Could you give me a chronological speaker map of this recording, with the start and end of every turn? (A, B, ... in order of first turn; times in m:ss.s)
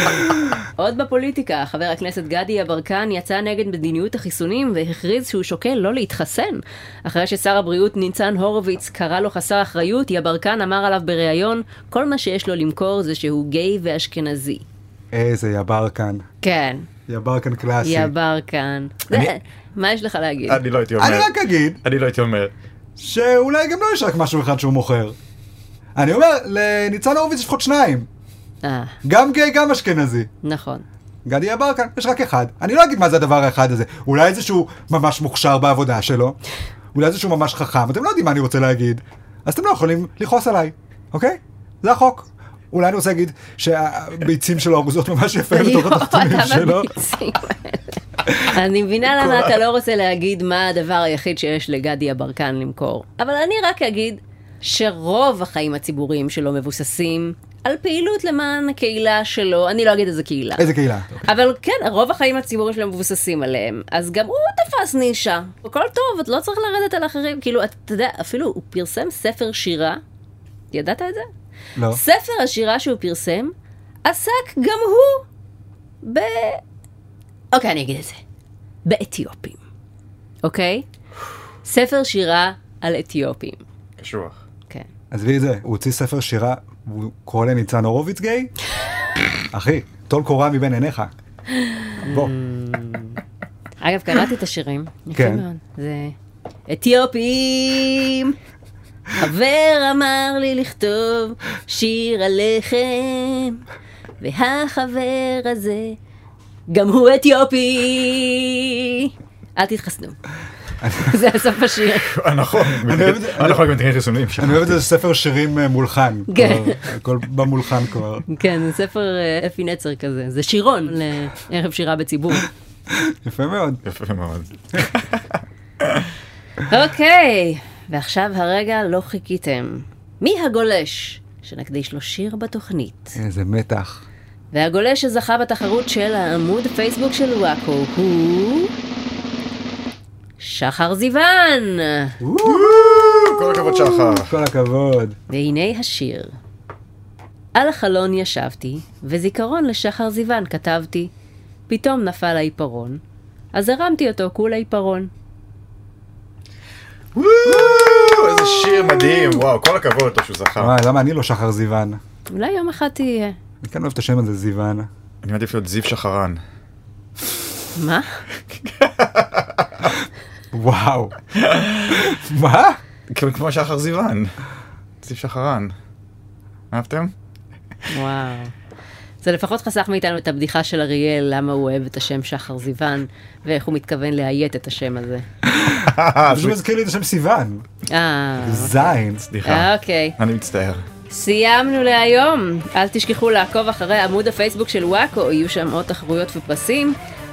0:00.8-0:14.6 A
0:15.1-0:16.2 B
0:16.4-0:16.9 A
0:17.1-0:18.1 B
0:17.8-0:20.6 A
0:20.5-0:21.3 C
0:21.0-0:21.8 B
0:21.8-0:22.5 C
0:23.0-0:25.2 B
0:26.0-0:28.1 B
0:28.6-0:29.0 A
0:29.0-0:30.3 B
0:30.4-0:30.8 A
0:31.2-0:36.4 B
0:36.9-0:46.9 B
0:45.5-1:00.7 A
0:49.2-0:49.6 B
1:00.6-1:01.2 B
1:01.2-1:10.0 A
1:10.7-1:11.3 A
1:11.8-1:12.0 B
1:11.9-1:13.5 A
1:14.0-1:15.2 A
1:16.0-1:16.6 A
1:17.5-1:18.2 A
1:18.8-1:19.6 A
1:20.4-1:20.8 A
1:21.6-1:23.6 A
1:24.0-1:24.4 C
1:25.1-1:28.5 B
1:29.5-1:31.1 B
1:31.5-1:33.2 A
1:32.0-1:32.3 B
1:33.8-1:36.2 A
1:35.2-1:35.4 B
1:36.7-1:38.4 A
1:39.2-1:43.6 A
1:44.2-1:46.0 A
1:46.7-1:50.2 A
1:50.8-1:51.2 B
1:51.0-1:52.1 A
1:52.0-1:54.8 C
1:52.8-1:53.6 B
1:54.4-1:58.2 B
1:56.3-1:56.8 A
1:58.3-2:02.5 A
2:02.9-2:03.8 B
2:03.8-2:05.2 C
2:06.7-2:13.2 A
2:13.2-2:14.0 B
2:14.5-2:18.7 A
2:20.4-2:22.2 A
2:22.2-2:25.2 B
2:22.4-2:24.3 C
2:25.3-2:26.4 A
2:27.6-2:31.1 A
2:31.7-2:33.0 A
2:33.5-2:35.1 A
2:37.2-2:40.8 C
2:37.4-2:37.8 B
2:40.6-2:42.0 B
2:42.3-2:43.4 A
2:43.6-2:44.9 B
2:45.2-2:46.4 C
2:47.8-2:48.2 A
2:48.5-2:49.9 C
2:50.5-2:51.1 B
2:51.3-2:52.1 C
2:51.9-2:52.8 B
2:53.1-2:54.3 C
2:55.0-2:55.7 C
2:56.7-2:57.1 C
2:57.9-2:58.5 A
2:59.2-3:05.2 A
3:05.5-3:07.6 B
3:05.8-3:06.6 C
3:07.9-3:08.9 A
3:08.4-3:09.3 B
3:09.3-3:10.8 C
3:09.4-3:10.2 A
3:11.1-3:17.0 A